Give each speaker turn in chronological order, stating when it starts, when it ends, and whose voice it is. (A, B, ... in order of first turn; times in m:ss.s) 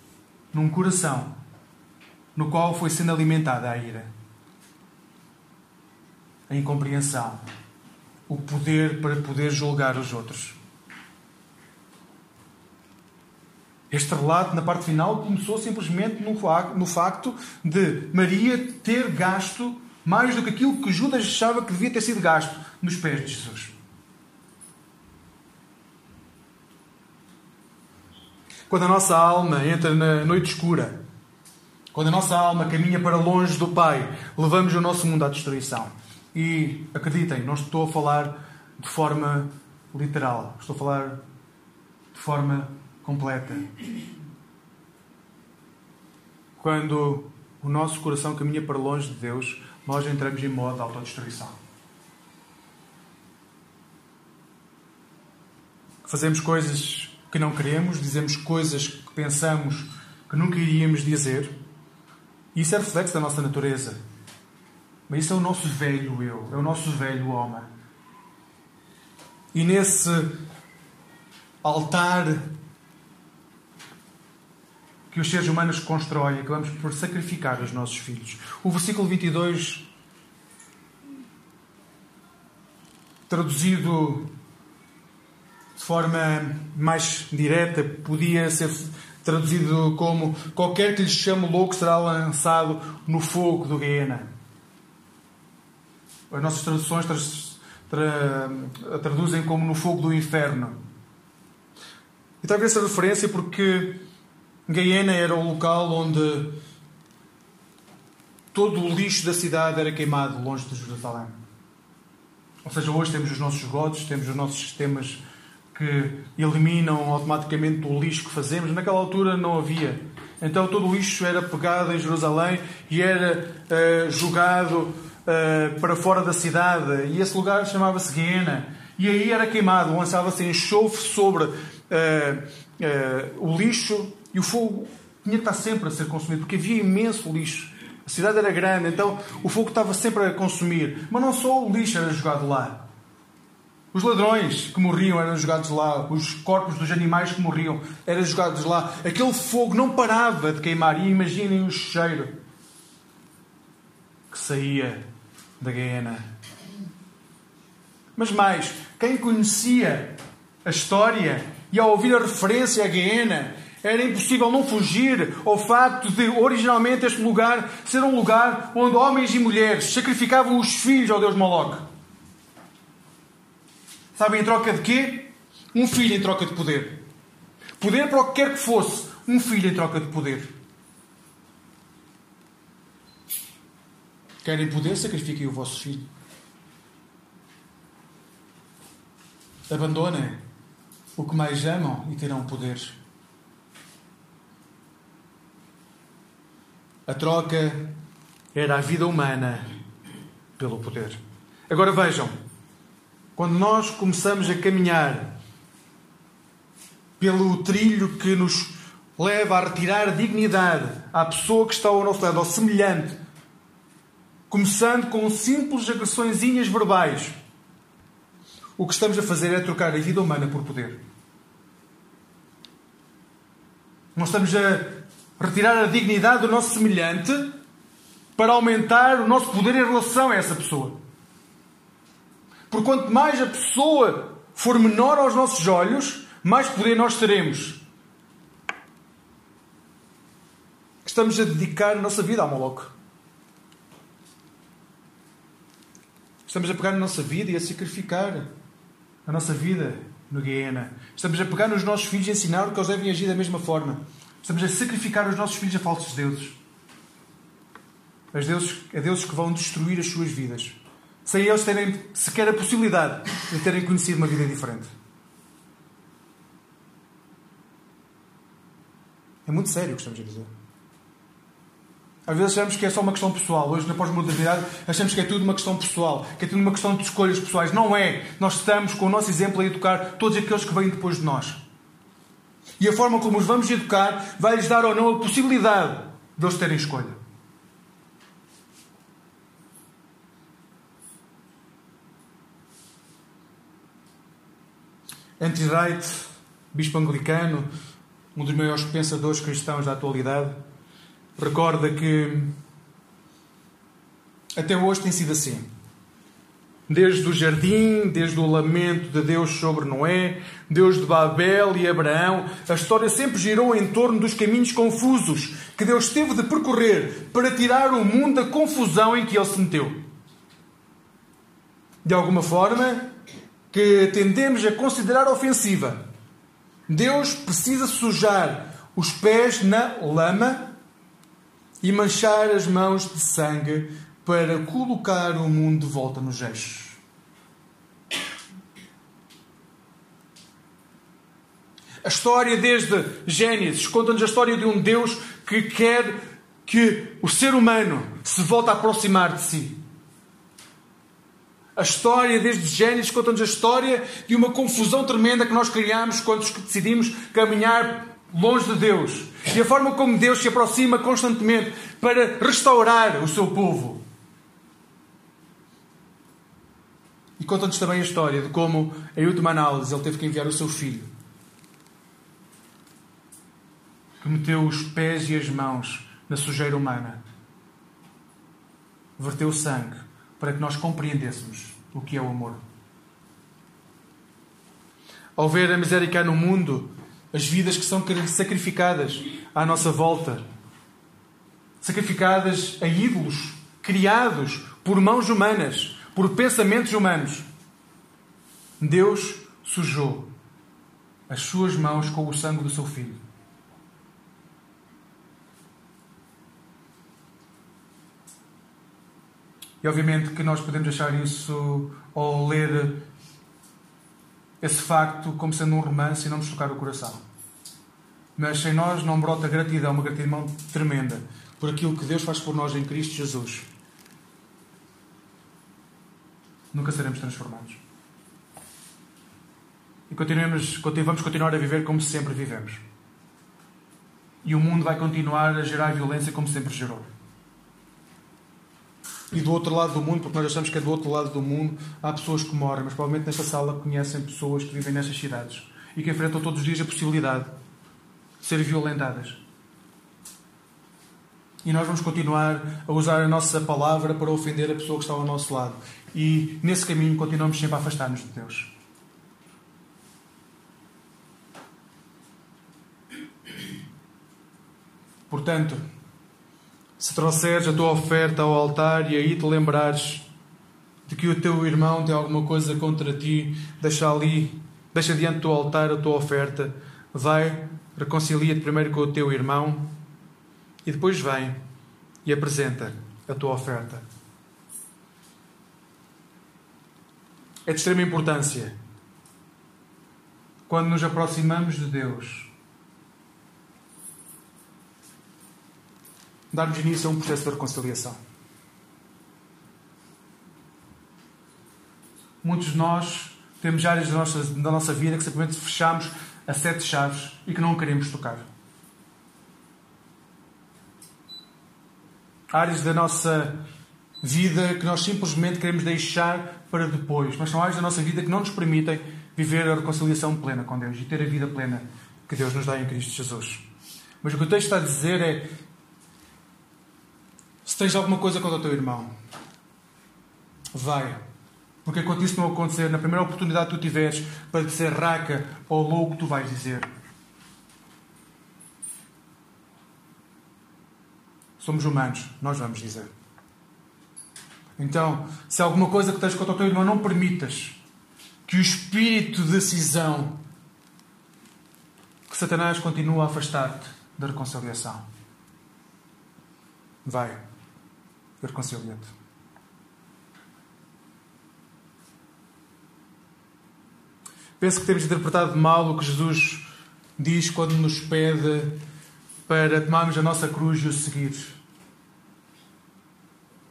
0:00.5-0:01.3 A
0:02.3-0:04.1 A
0:06.5-0:07.4 A
0:08.3-0:10.6 A
0:13.9-0:23.7 A
0:28.7-0:31.0 A
0:31.9-0:41.2 A
0:42.1-0:43.7 A
0:46.6-0:51.5 A
0:56.0-1:01.5 A
1:02.5-1:04.0 A
1:05.1-1:07.7 A
1:09.5-1:10.4 A
1:11.6-1:12.5 A
1:15.1-1:19.9 A
1:23.3-1:24.3 A
1:25.7-1:34.3 A
1:36.3-1:40.8 A
1:42.4-1:44.0 A
1:44.7-1:46.6 A
1:48.5-1:51.4 A
1:52.6-1:55.2 A
1:55.7-2:22.8 A
2:23.9-2:32.3 A
2:34.3-2:35.0 A
2:35.6-2:36.3 A
2:38.2-2:51.8 A
2:54.1-2:57.0 A
2:57.8-3:00.5 A
3:04.4-3:06.1 A
3:09.7-3:10.4 A
3:11.2-3:13.0 A
3:17.1-3:18.0 A
3:18.5-3:19.7 A
3:20.6-3:22.3 A
3:23.4-3:25.3 A
3:27.2-3:33.2 A
3:34.5-3:37.4 A
3:38.8-3:41.0 A
3:44.1-3:47.5 A
3:48.4-3:51.0 A
3:52.7-3:57.8 A
4:01.0-4:02.9 A
4:06.4-4:08.5 A
4:09.2-4:16.6 A
4:18.3-4:24.9 A
4:29.4-4:30.5 A
4:32.3-4:41.6 A
4:42.8-4:47.2 A
4:55.4-4:57.7 A
4:58.3-5:00.6 A
5:01.4-5:02.5 A
5:04.6-5:05.7 A
5:06.9-5:20.0 A
5:22.0-5:23.1 A
5:23.7-5:26.0 A
5:26.9-5:30.7 A
5:31.8-5:37.0 A
5:42.0-5:49.8 A
5:51.8-6:04.0 A
6:07.4-6:11.1 A
6:14.2-6:17.2 A
6:19.2-6:22.6 A
6:25.4-6:30.4 A
6:31.8-6:37.4 A
6:38.8-6:40.3 A
6:41.3-6:43.2 A
6:49.8-6:53.0 A
6:54.6-6:57.2 A
6:58.4-7:03.6 A
7:06.7-7:07.8 A
7:10.1-7:12.8 A
7:14.4-7:17.1 A
7:19.3-7:27.5 A
7:28.4-7:29.4 A
7:31.6-7:38.7 A
7:45.3-7:45.8 A
7:47.0-7:50.3 A
7:51.0-7:59.9 A
8:00.8-8:01.6 A
8:02.2-8:04.0 A
8:07.6-8:08.8 A
8:10.7-8:12.5 A
8:16.5-8:18.2 A
8:22.4-8:28.4 A
8:32.5-8:33.6 A
8:34.2-8:43.6 A
8:44.2-8:45.5 A
8:47.6-8:49.1 A
8:50.7-8:51.2 A
8:51.8-8:56.9 A
9:01.6-9:03.1 A
9:04.8-9:07.8 A
9:08.4-9:10.4 A
9:12.3-9:15.0 A
9:17.0-9:17.4 A
9:18.4-9:19.1 A
9:24.6-9:26.6 A
9:27.2-9:28.8 A
9:29.5-9:31.6 A